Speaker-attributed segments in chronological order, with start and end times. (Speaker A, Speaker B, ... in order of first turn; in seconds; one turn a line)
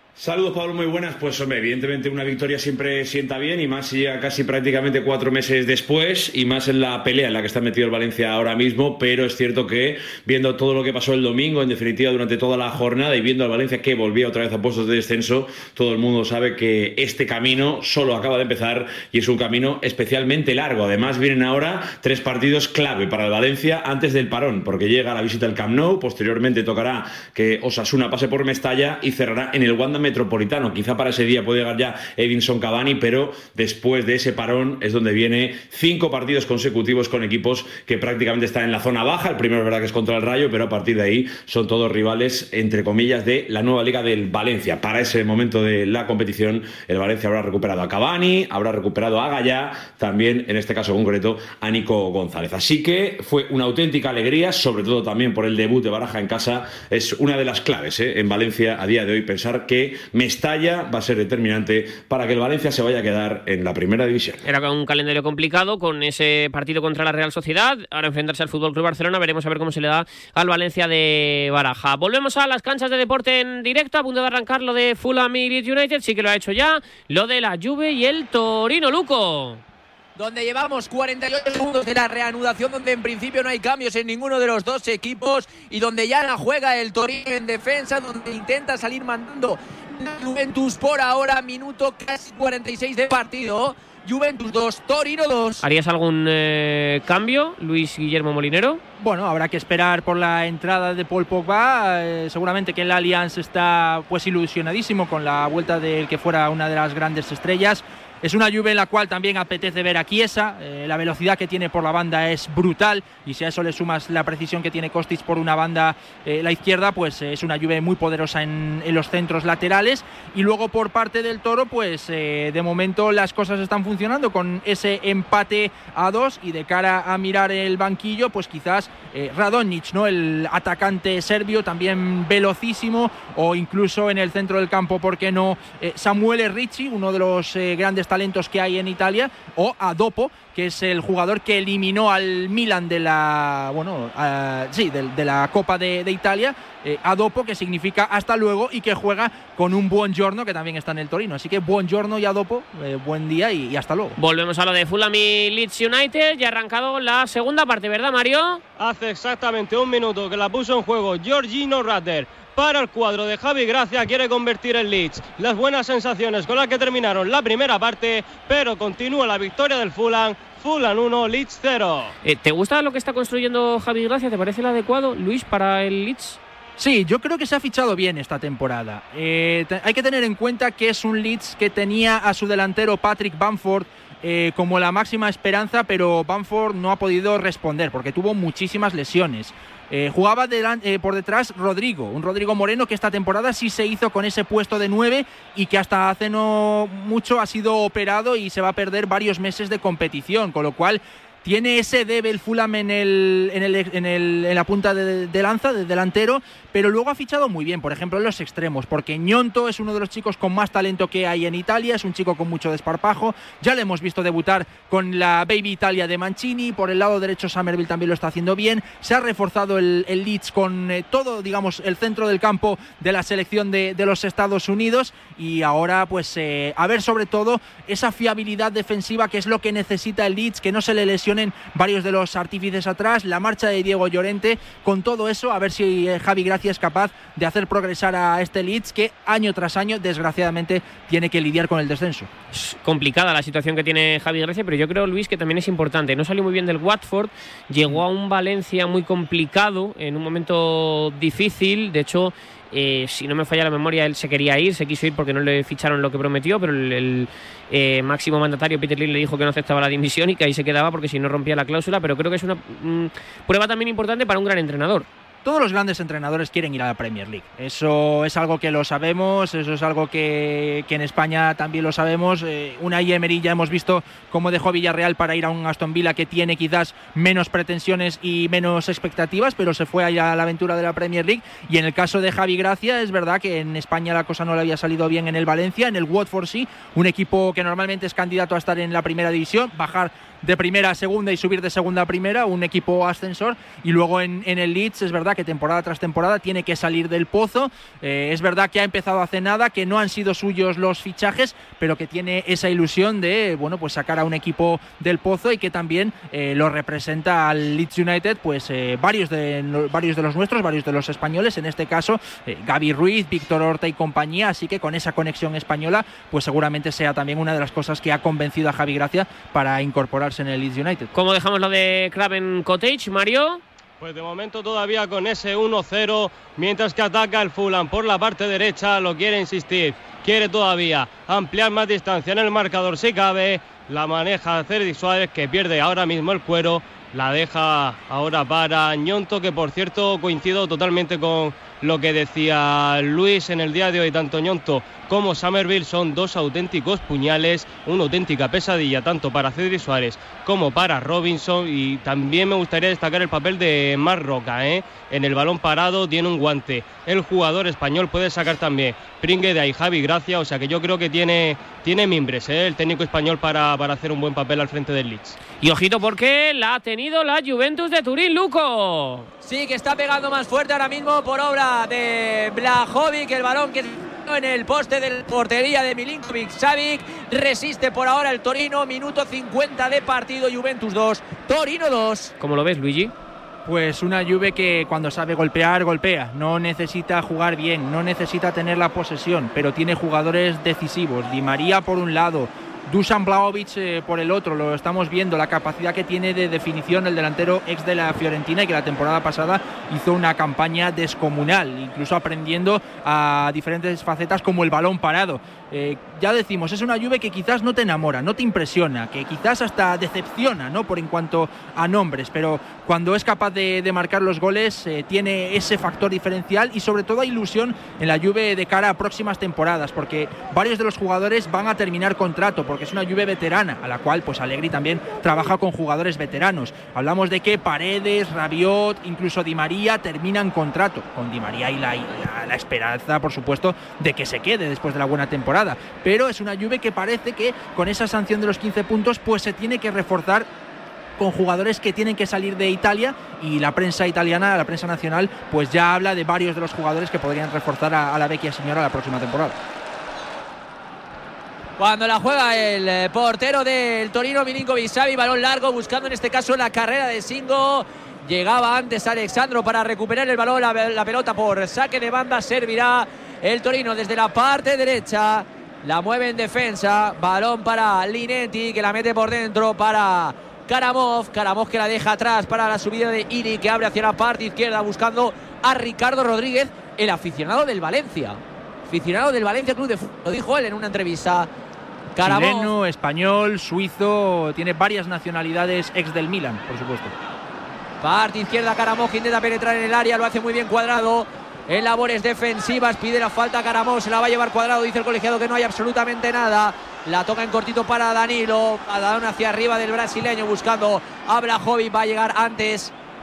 Speaker A: 0.2-64.4
Speaker B: 64.4-79.6
Speaker C: 80.2-95.6
Speaker B: 95.6-98.8
Speaker D: 99.0-154.2
Speaker B: 154.2-158.6
Speaker E: 158.8-172.1
Speaker B: 172.2-176.4
Speaker D: 176.8-242.3
Speaker B: 242.5-265.1
Speaker D: 265.4-321.1
Speaker B: 321.1-323.6
Speaker E: 324.0-365.4
Speaker B: 365.6-369.3
Speaker C: 369.4-382.3
Speaker B: 382.4-383.1
Speaker D: 383.7-440.5
Speaker D: 441.2-449.6
Speaker C: 451.8-481.5
Speaker C: 482.2-482.7
Speaker D: 482.2-487.1
Speaker C: 488.0-502.9